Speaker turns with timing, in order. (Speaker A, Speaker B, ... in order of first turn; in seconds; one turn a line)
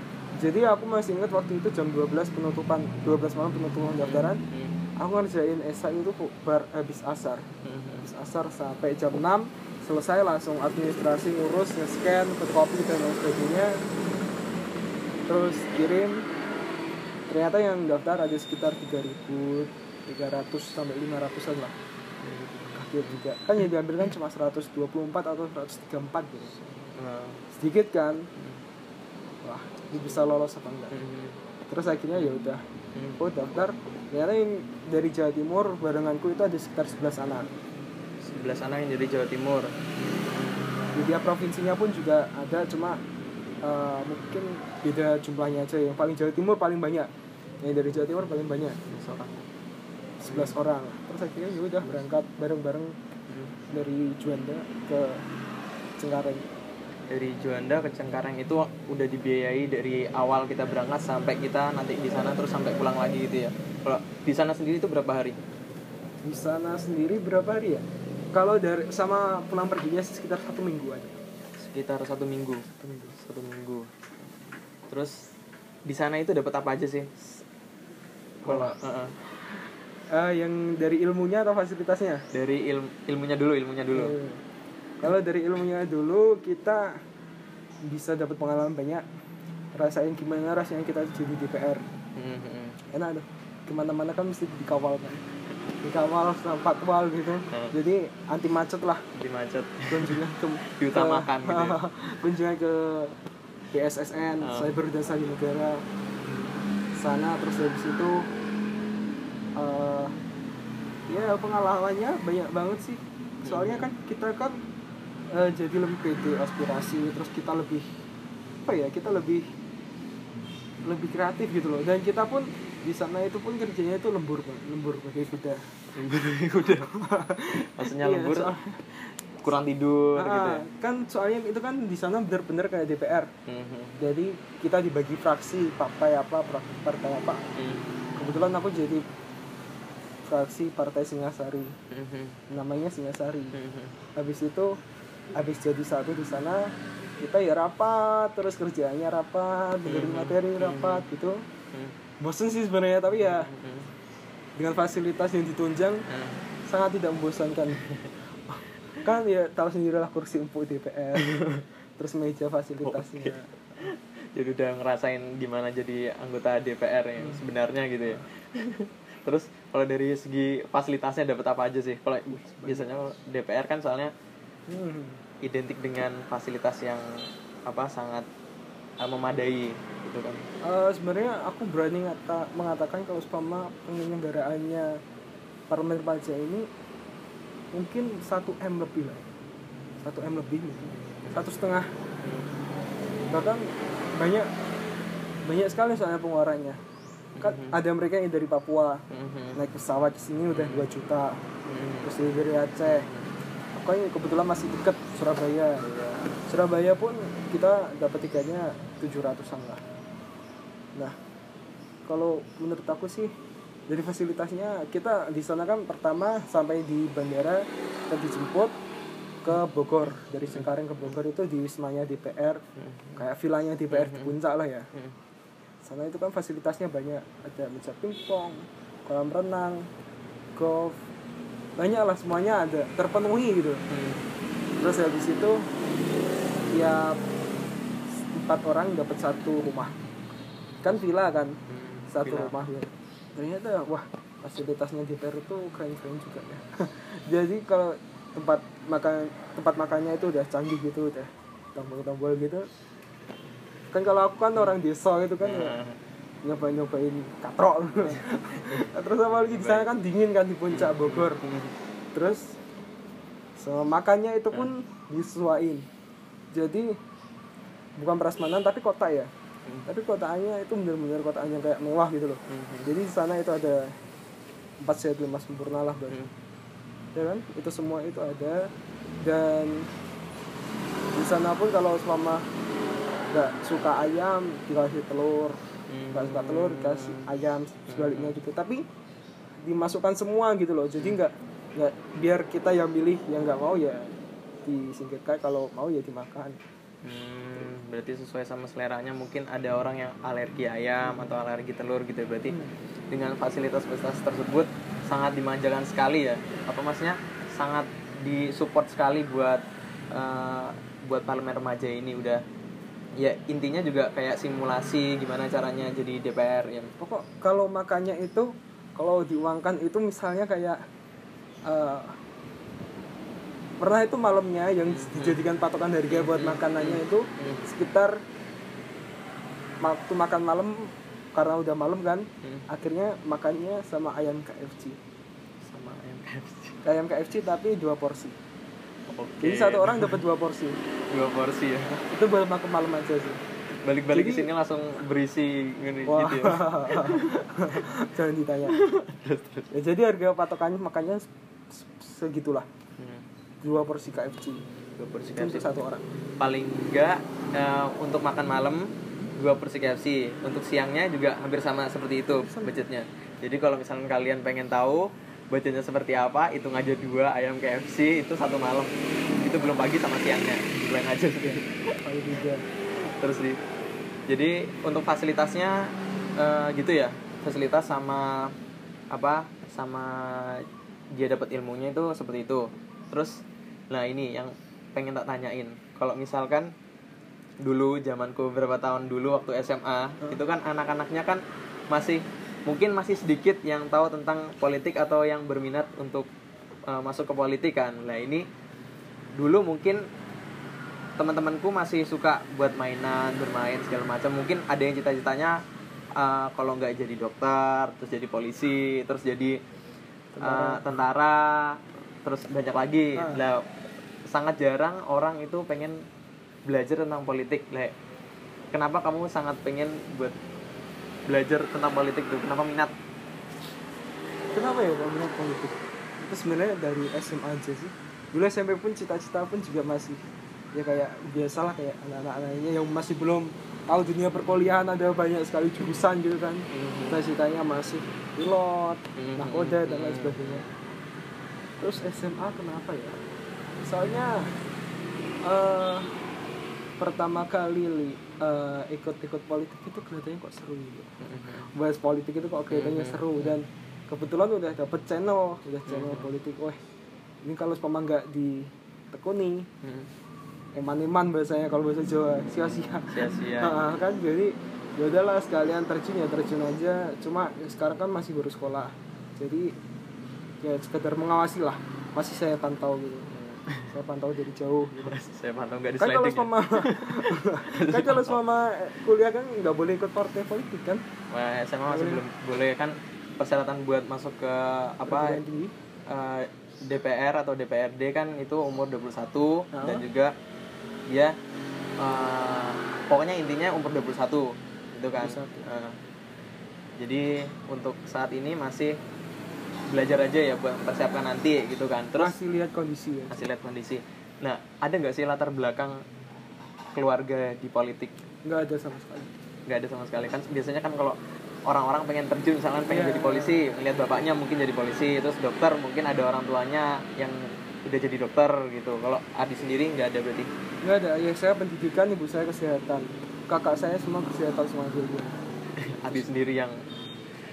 Speaker A: 0.4-4.4
Speaker B: 4.0-4.8
Speaker A: 5.0-7.4
Speaker B: 7.6-8.1
Speaker A: 8.0-13.8
Speaker A: 15.3-16.2
Speaker A: 17.3-21.7
Speaker B: 22.2-23.2
Speaker A: 22.7-26.5
Speaker B: 26.8-27.4
Speaker A: 27.5-28.3
Speaker B: 28.4-28.6
Speaker A: 29.4-30.9
Speaker B: 30.9-31.4
Speaker A: 31.7-32.6
Speaker B: 32.1-33.2
Speaker A: 33.2-37.5
Speaker B: 38.2-40.6
Speaker A: 40.9-43.0
Speaker A: 43.6-47.1
Speaker A: 47.6-48.8
Speaker B: 48.9-49.4
Speaker A: 50.2-53.0
Speaker B: 50.2-50.6
Speaker B: 53.3-53.5
Speaker A: 53.7-55.2
Speaker A: 56.0-56.4
Speaker B: 57.1-65.4
Speaker A: 66.2-71.2
Speaker B: 71.6-72.6
Speaker A: 72.8-73.2
Speaker B: 73.2-73.9
Speaker B: 74.9-75.2
Speaker B: 75.9-77.1
Speaker B: 78.4-79.2
Speaker A: 78.4-78.8
Speaker A: 80.1-82.2
Speaker B: 82.3-84.1
Speaker A: 83.9-84.4
Speaker A: 85.0-87.0
Speaker A: 87.8-89.0
Speaker A: 89.8-91.8
Speaker B: 92.2-92.8
Speaker A: 92.9-95.2
Speaker A: 95.8-99.0
Speaker B: 99.1-100.2
Speaker A: 99.9-103.2
Speaker B: 100.7-101.8
Speaker A: 103.7-105.8
Speaker B: 104.4-104.7
Speaker B: 106.3-106.6
Speaker A: 107.0-108.2
Speaker A: 109.6-110.1
Speaker A: 111.1-114.6
Speaker B: 113.4-113.8
Speaker A: 115.3-117.9
Speaker A: 118.7-119.5
Speaker A: 120.8-125.7
Speaker B: 126.0-126.9
Speaker A: 126.7-129.0
Speaker B: 127.6-128.5
Speaker B: 129.4-130.6
Speaker A: 130.2-133.3
Speaker B: 133.4-133.9
Speaker A: 134.0-137.4
Speaker B: 137.6-137.9
Speaker A: 138.2-139.0
Speaker A: 140.3-141.7
Speaker B: 141.9-142.4
Speaker A: 142.5-143.6
Speaker B: 143.5-143.9
Speaker A: 144.2-144.8
Speaker A: 145.3-151.4
Speaker B: 149.9-151.0
Speaker A: 152.2-153.5
Speaker B: 153.2-153.9
Speaker A: 154.6-156.0
Speaker B: 156.1-156.4
Speaker A: 156.7-157.8
Speaker B: 157.8-158.1
Speaker A: 158.5-161.4
Speaker B: 161.3-161.6
Speaker A: 162.0-163.5
Speaker B: 162.8-174.1
Speaker A: 167.2-167.4
Speaker A: 172.3-172.8
Speaker A: 174.7-175.2
Speaker B: 175.4-178.2
Speaker B: 179.0-180.4
Speaker A: 180.6-185.0
Speaker A: 185.7-186.7
Speaker A: 187.7-189.3
Speaker A: 190.0-191.9
Speaker B: 192.2-192.5
Speaker A: 193.3-194.5
Speaker A: 195.4-196.8
Speaker B: 197.3-197.8
Speaker A: 197.4-199.0
Speaker B: 199.1-199.6
Speaker A: 199.5-201.4
Speaker B: 200.5-200.8
Speaker B: 201.7-202.1
Speaker A: 202.0-203.1
Speaker B: 202.8-203.3
Speaker A: 203.7-205.8
Speaker B: 205.8-206.3
Speaker A: 206.4-209.8
Speaker A: 212.1-213.3
Speaker A: 213.9-218.8
Speaker A: 219.4-222.6
Speaker B: 222.8-223.2
Speaker A: 223.2-224.9
Speaker B: 223.9-224.3
Speaker A: 225.8-229.9
Speaker A: 230.6-231.0
Speaker A: 231.8-233.8
Speaker B: 233.9-234.2
Speaker A: 234.8-235.7
Speaker A: 236.7-237.2
Speaker A: 238.2-239.9
Speaker A: 240.8-241.6
Speaker B: 241.7-242.5
Speaker A: 242.1-252.7
Speaker A: 253.9-255.8
Speaker B: 255.4-256.0
Speaker A: 256.4-261.4
Speaker B: 258.1-259.9
Speaker B: 260.7-261.8
Speaker A: 262.1-262.6
Speaker A: 263.6-265.9
Speaker A: 266.5-266.9
Speaker A: 268.0-269.3
Speaker A: 269.9-273.9
Speaker B: 272.5-272.9
Speaker A: 274.8-276.2
Speaker A: 277.1-278.7
Speaker A: 279.2-279.9
Speaker A: 281.1-282.4
Speaker A: 283.3-285.6
Speaker B: 285.9-287.2
Speaker A: 286.1-288.8
Speaker B: 287.9-288.3
Speaker A: 289.6-294.1
Speaker A: 294.6-296.6
Speaker B: 297.0-302.6
Speaker A: 301.1-301.3
Speaker A: 302.5-302.7
Speaker B: 303.1-312.4
Speaker B: 313.1-316.9
Speaker A: 317.0-320.8
Speaker A: 321.6-322.2
Speaker A: 323.8-328.2
Speaker B: 324.9-325.4
Speaker B: 326.1-327.6
Speaker A: 329.8-335.0
Speaker B: 335.6-336.8
Speaker A: 336.8-338.4
Speaker B: 339.1-340.2
Speaker A: 339.4-340.8
Speaker B: 341.1-341.9
Speaker A: 341.9-343.4
Speaker B: 343.8-347.4
Speaker A: 344.1-344.5
Speaker A: 346.1-348.8
Speaker B: 348.7-349.7
Speaker A: 349.7-352.6
Speaker B: 353.0-353.2
Speaker A: 353.6-354.6
Speaker B: 355.0-355.7
Speaker A: 355.4-356.0
Speaker B: 356.4-371.9
Speaker A: 362.3-362.8
Speaker A: 371.4-372.6
Speaker B: 373.0-373.6
Speaker B: 374.3-378.5
Speaker B: 379.1-383.4
Speaker B: 383.9-386.7
Speaker B: 387.6-396.3
Speaker B: 396.9-398.4
Speaker B: 399.3-400.0
Speaker B: 401.2-405.6
Speaker B: 406.1-409.6
Speaker A: 410.3-410.8
Speaker B: 410.4-413.6
Speaker A: 413.1-413.4
Speaker B: 414.3-416.0
Speaker B: 416.7-417.9
Speaker B: 418.7-420.4
Speaker B: 421.3-422.9
Speaker A: 424.5-440.6
Speaker B: 436.7-437.2
Speaker B: 439.2-440.6
Speaker A: 441.8-443.2
Speaker A: 443.8-444.5
Speaker A: 445.4-446.1
Speaker A: 447.0-451.1
Speaker B: 451.2-451.7
Speaker A: 451.7-456.8
Speaker B: 452.7-453.6
Speaker B: 455.9-456.3
Speaker A: 457.4-459.7
Speaker B: 459.8-460.1
Speaker A: 460.7-469.7
Speaker B: 462.4-463.8
Speaker A: 470.6-473.3
Speaker B: 473.3-473.9
Speaker A: 473.9-475.2
Speaker B: 475.0-478.4
Speaker A: 476.0-481.0
Speaker B: 481.3-485.4
Speaker A: 481.9-482.2
Speaker A: 485.1-485.7
Speaker B: 486.1-490.3
Speaker A: 489.7-490.0
Speaker B: 491.1-491.3
Speaker B: 492.0-496.0
Speaker A: 495.2-495.6
Speaker B: 497.0-498.9
Speaker B: 499.9-502.4
Speaker A: 502.1-503.5
Speaker B: 503.3-506.0
Speaker B: 506.9-508.1
Speaker A: 508.4-509.3
Speaker B: 509.7-520.5
Speaker A: 512.9-513.7
Speaker A: 520.8-525.4
Speaker B: 525.8-526.8